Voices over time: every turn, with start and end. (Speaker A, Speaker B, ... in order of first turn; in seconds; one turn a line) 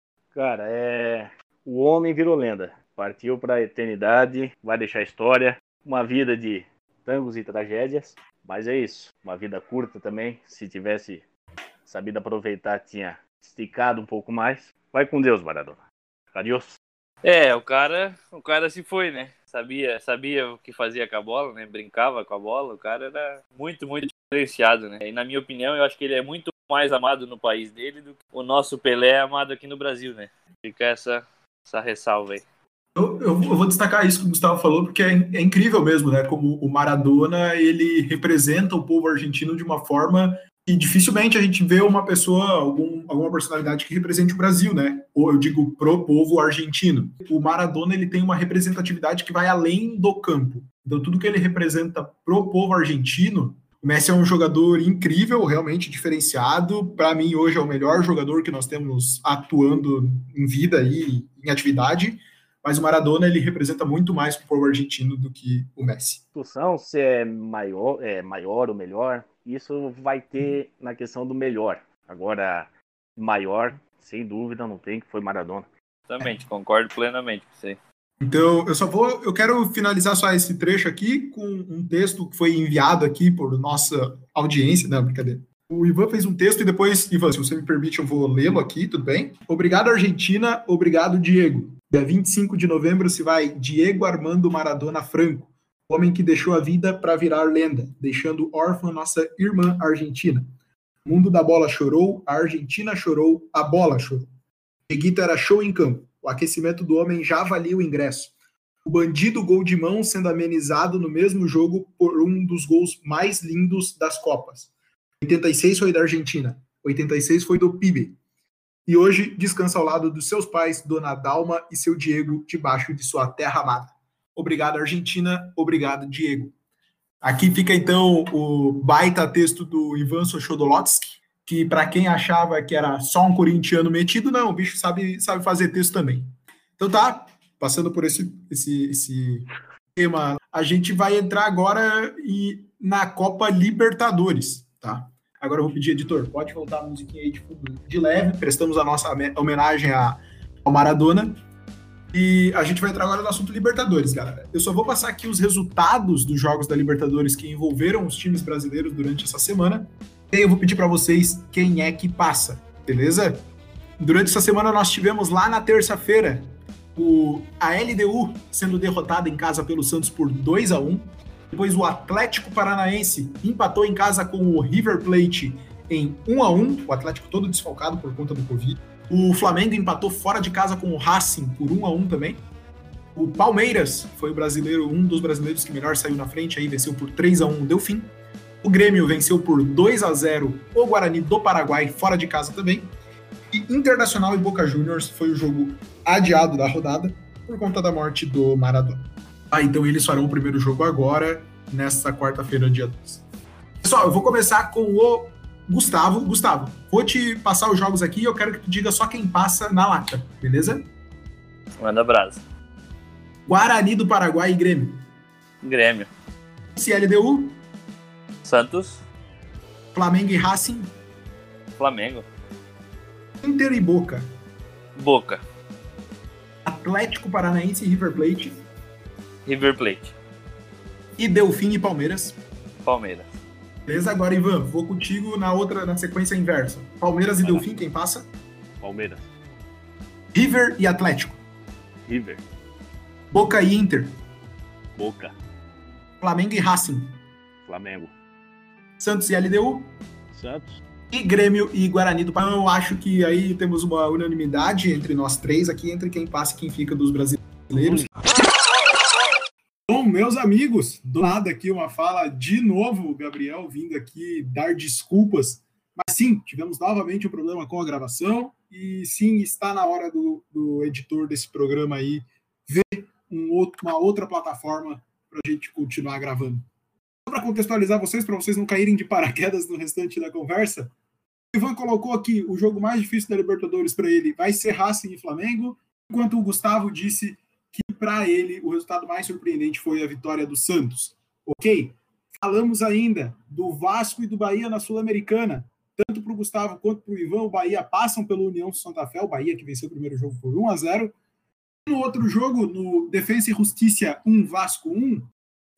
Speaker A: 0.3-11.2
Speaker A: 11.8-15.8
Speaker A: 16.3-16.8
Speaker B: 17.2-32.4
Speaker C: 32.9-66.2
Speaker A: 66.3-75.7
Speaker B: 76.1-77.8
Speaker C: 78.2-100.5
Speaker C: 101.0-104.3
Speaker C: 104.9-108.3
Speaker C: 108.8-114.7
Speaker C: 115.2-118.2
Speaker C: 118.8-126.5
Speaker C: 127.2-151.4
Speaker C: 152.1-163.4
Speaker C: 164.0-182.4
Speaker C: 183.1-188.1
Speaker C: 188.6-192.9
Speaker C: 193.5-203.2
Speaker C: 203.8-210.9
Speaker B: 211.8-212.4
Speaker C: 213.5-215.0
Speaker B: 215.6-216.1
Speaker C: 216.8-217.6
Speaker B: 218.4-219.0
Speaker C: 219.9-220.9
Speaker B: 221.8-222.2
Speaker C: 223.4-224.3
Speaker B: 225.0-225.4
Speaker C: 226.6-228.6
Speaker B: 229.4-230.1
Speaker C: 231.2-232.4
Speaker B: 232.8-233.3
Speaker C: 233.8-238.3
Speaker A: 238.8-239.3
Speaker C: 240.3-241.4
Speaker A: 242.1-242.4
Speaker C: 243.3-244.2
Speaker A: 245.0-245.3
Speaker C: 246.2-247.2
Speaker A: 247.7-248.1
Speaker C: 249.0-249.9
Speaker A: 250.3-250.8
Speaker C: 251.1-258.1
Speaker A: 257.8-258.1
Speaker C: 259.9-276.6
Speaker C: 277.3-280.9
Speaker C: 281.5-301.1
Speaker C: 301.9-305.3